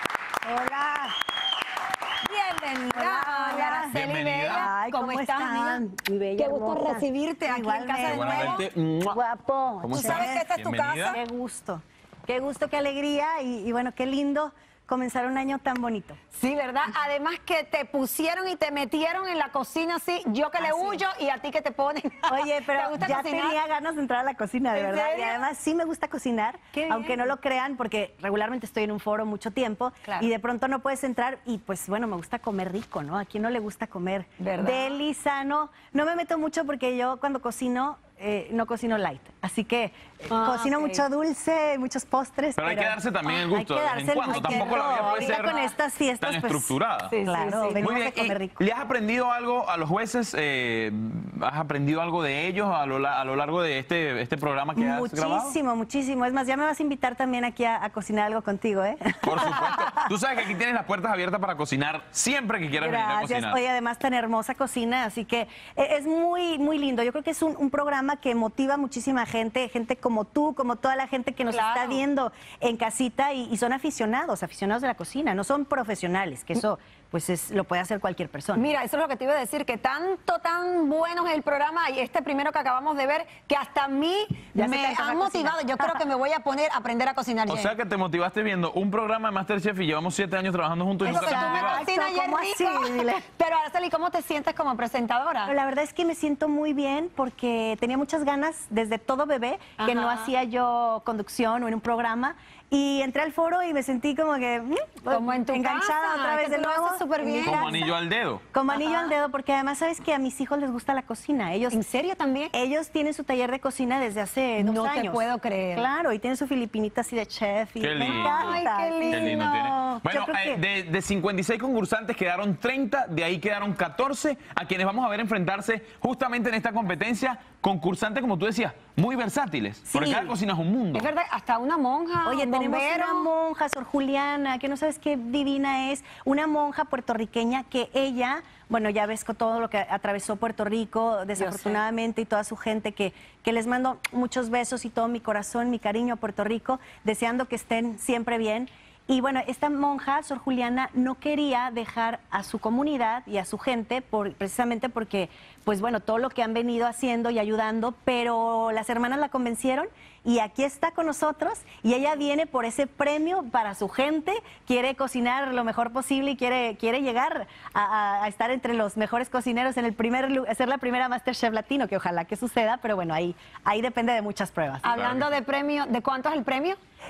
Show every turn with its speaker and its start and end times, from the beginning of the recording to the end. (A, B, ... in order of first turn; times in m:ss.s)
0:00.4-0:01.1 A
0:02.2-0:05.8 B
0:02.9-0:03.9 A
0:03.9-0:04.7 C
0:04.5-0:10.5 A
0:06.4-0:08.6 B
0:08.0-0:09.2 C
0:09.8-0:11.2 C
0:09.9-0:11.2 B
0:11.1-0:16.2 A
0:16.3-0:23.6 B
0:20.6-0:21.0 A
0:22.3-0:48.6 A
0:24.7-0:25.4 B
0:26.7-0:27.3 B
0:34.4-0:35.0 B
0:40.3-0:41.0 B
0:42.6-0:45.6 C
0:44.3-0:45.7 B
0:46.2-0:47.1 C
0:47.1-0:47.8 B
0:47.8-0:55.6 C
0:54.8-1:00.1 A
0:59.2-1:03.6 C
1:02.8-1:18.7 A
1:11.5-1:12.0 B
1:18.6-1:27.7 B
1:24.6-1:26.0 A
1:27.5-1:31.8 C
1:31.0-1:33.2 A
1:31.0-1:35.6 B
1:35.5-1:47.9 A
1:39.8-1:40.3 B
1:45.1-1:47.8 B
1:47.4-1:48.4 C
1:48.5-1:51.8 A
1:48.7-1:49.1 B
1:51.7-1:52.5 B
1:52.5-2:00.6 A
1:54.6-1:55.9 B
1:57.8-2:11.1 C
1:58.0-1:59.7 B
2:09.9-2:10.3 A
2:10.9-2:13.3 B
2:12.2-2:54.9 A
2:21.4-2:21.8 B
2:54.8-2:56.8 B
2:54.9-2:55.3 C